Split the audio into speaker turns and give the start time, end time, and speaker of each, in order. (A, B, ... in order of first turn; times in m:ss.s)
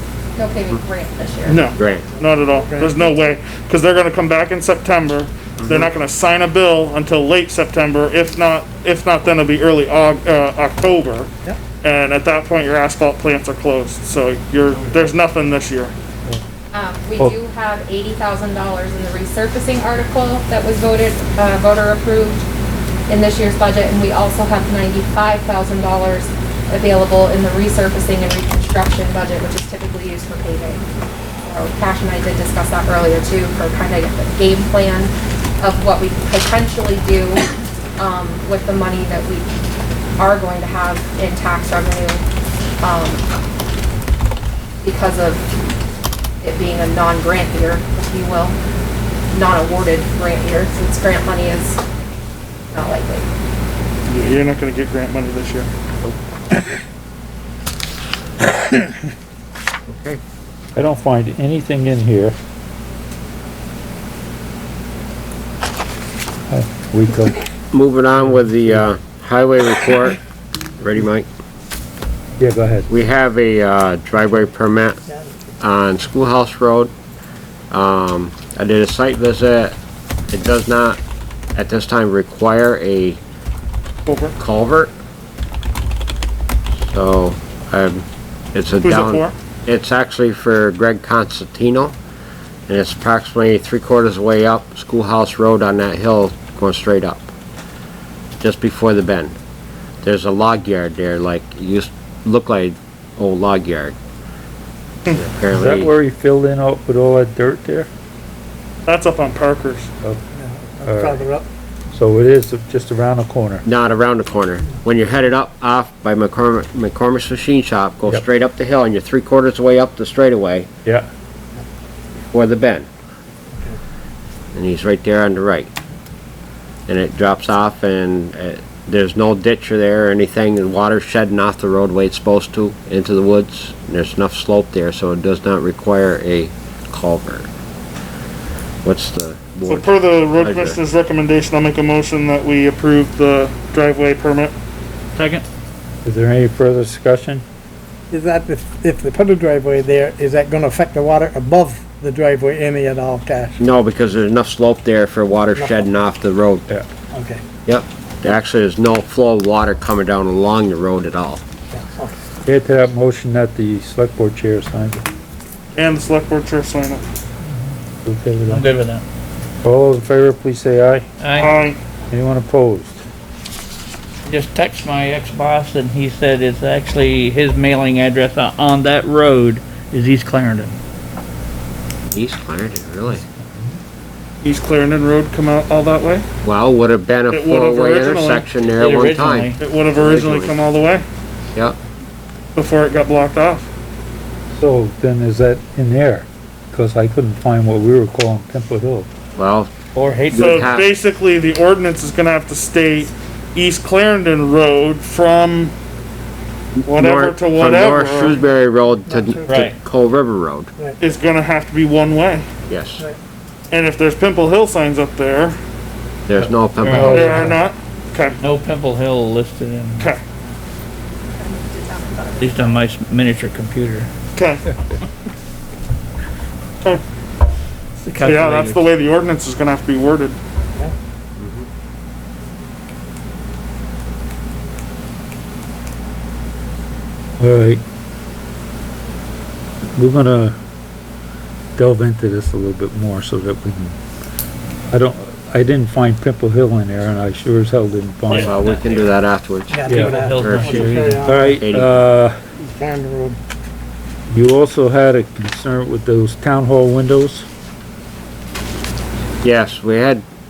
0:00.4-0:01.6 A
0:01.5-0:15.9 B
0:01.8-0:02.1 C
0:02.6-0:03.0 D
0:16.7-0:22.4 A
0:23.1-0:30.8 A
0:31.4-0:37.5 A
0:38.0-0:39.5 A
0:40.2-0:42.2 A
0:42.8-0:43.2 A
0:44.8-0:45.5 A
0:46.4-0:48.6 A
0:49.3-0:51.8 A
0:52.7-0:53.3 A
0:54.1-0:55.7 B
0:59.9-1:00.2 C
1:00.8-1:02.4 E
1:06.5-1:07.4 E
1:07.7-1:10.2 C
1:10.8-1:11.3 C
1:12.4-1:12.9 E
1:12.9-1:15.0 C
1:15.6-1:16.9 C
1:17.7-1:19.8 C
1:20.3-1:21.0 C
1:21.6-1:23.2 C
1:24.1-1:24.4 B
1:24.4-1:24.9 C
1:26.8-1:32.0 C
1:28.8-1:29.3 B
1:32.7-1:37.3 C
1:38.4-1:39.4 C
1:40.0-1:44.0 C
1:45.2-1:45.9 C
1:45.5-1:47.9 E
1:48.9-1:49.9 B
1:50.3-1:51.5 D
1:50.8-1:51.3 E
1:51.9-1:53.6 E
1:53.6-2:00.7 C
2:02.3-2:02.9 C
2:04.5-2:05.7 C
2:06.9-2:17.5 C
2:18.8-2:20.8 C
2:19.7-2:24.5 B
2:25.2-2:25.4 F
2:26.0-2:27.4 E
2:28.1-2:33.6 D
2:33.6-2:36.6 C
2:35.6-2:35.9 D
2:37.1-2:37.4 D
2:37.7-2:41.4 C
2:41.7-2:42.2 D
2:42.5-2:45.1 E
2:45.8-2:47.0 B
2:48.0-2:48.7 E
2:48.5-2:49.0 F
2:49.6-2:51.1 E
2:51.2-2:51.6 F
2:51.3-2:51.8 B
2:52.1-2:53.0 E
2:54.3-3:00.8 F
3:02.1-3:03.2 C
3:04.4-3:06.2 B
3:06.4-3:10.6 C
3:07.3-3:08.5 B
3:08.8-3:09.6 F
3:09.6-3:11.0 B
3:12.6-3:13.7 B
3:14.6-3:19.1 E
3:19.4-3:19.7 C
3:20.0-3:20.7 F
3:20.3-3:20.9 C
3:20.3-3:25.7 B
3:26.8-3:30.7 C
3:26.9-3:28.4 B
3:29.1-3:29.7 D
3:29.5-3:29.8 F
3:31.0-3:32.5 B
3:32.7-3:33.0 C
3:33.7-3:35.6 B
3:36.3-3:37.3 C
3:36.8-3:37.6 F
3:37.0-3:37.5 E
3:37.0-3:38.4 B
3:38.4-3:40.1 F
3:41.3-3:42.8 A
3:42.4-3:44.1 F
3:44.4-3:44.6 B
3:48.0-3:48.8 F
3:48.2-3:50.4 B
3:51.4-3:51.7 C
3:57.4-3:57.8 E
4:00.0-4:00.6 E
4:01.8-4:04.0 E
4:04.9-4:08.5 E
4:08.3-4:09.0 F
4:08.4-4:10.8 C
4:09.7-4:11.6 D
4:09.9-4:10.2 E
4:09.9-4:11.4 F
4:11.2-4:12.4 E
4:11.4-4:12.0 C
4:12.6-4:13.4 D
4:14.3-4:17.5 E
4:19.4-4:20.2 C